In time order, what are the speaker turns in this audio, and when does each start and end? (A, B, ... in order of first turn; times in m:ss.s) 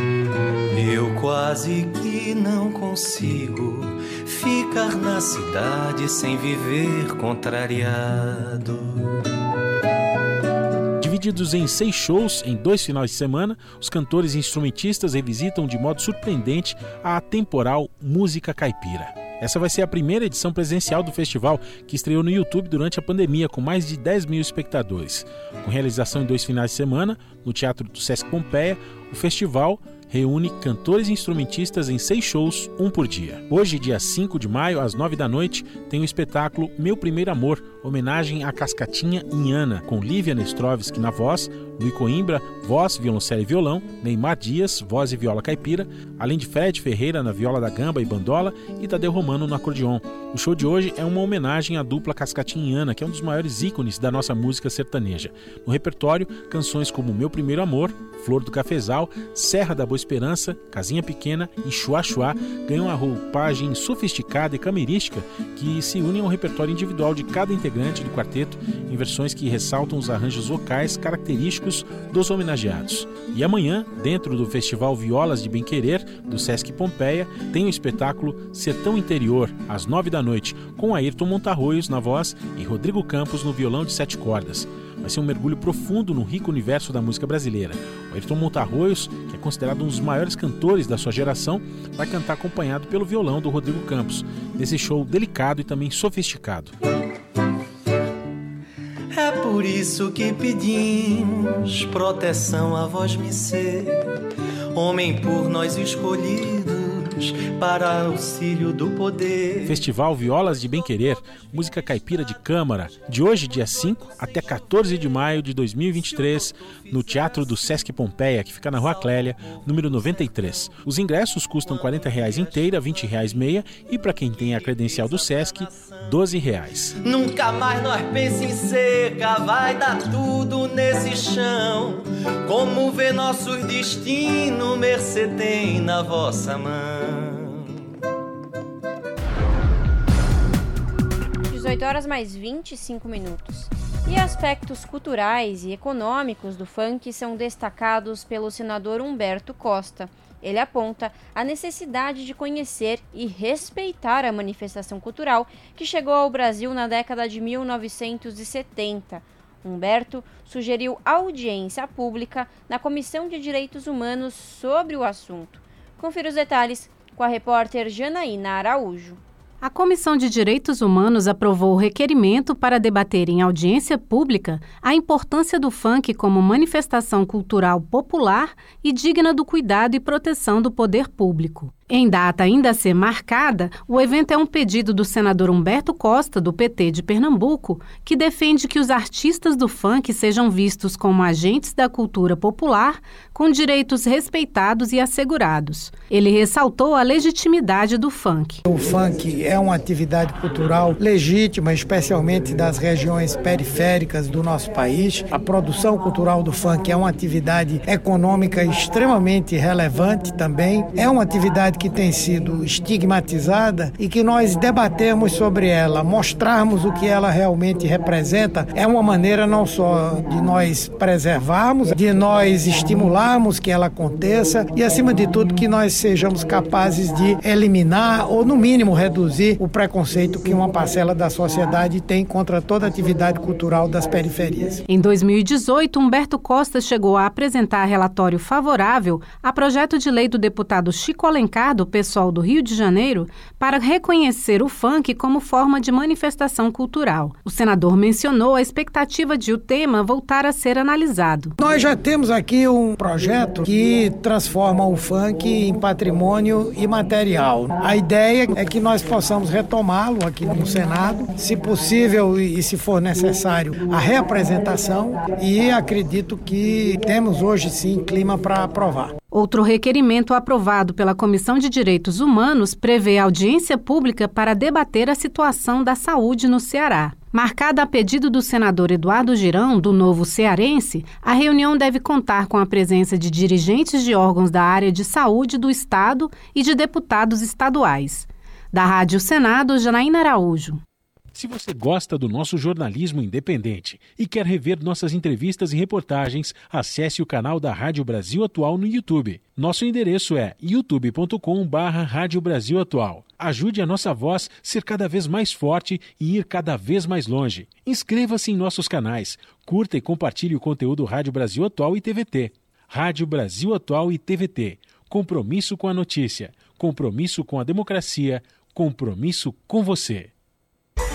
0:00.7-0:09.2 A
0:11.0-1:36.7 B
1:39.1-1:44.1 A
1:44.7-1:49.8 A
1:49.6-2:07.0 B
2:01.7-2:02.7 A
2:04.4-2:06.0 A
2:07.0-2:17.6 A
2:21.5-2:49.2 C
2:49.6-3:18.6 D
3:18.7-3:54.8 E
3:54.9-4:11.5 D
4:11.6-4:29.1 E
4:29.3-4:50.8 D
4:51.3-5:20.3 B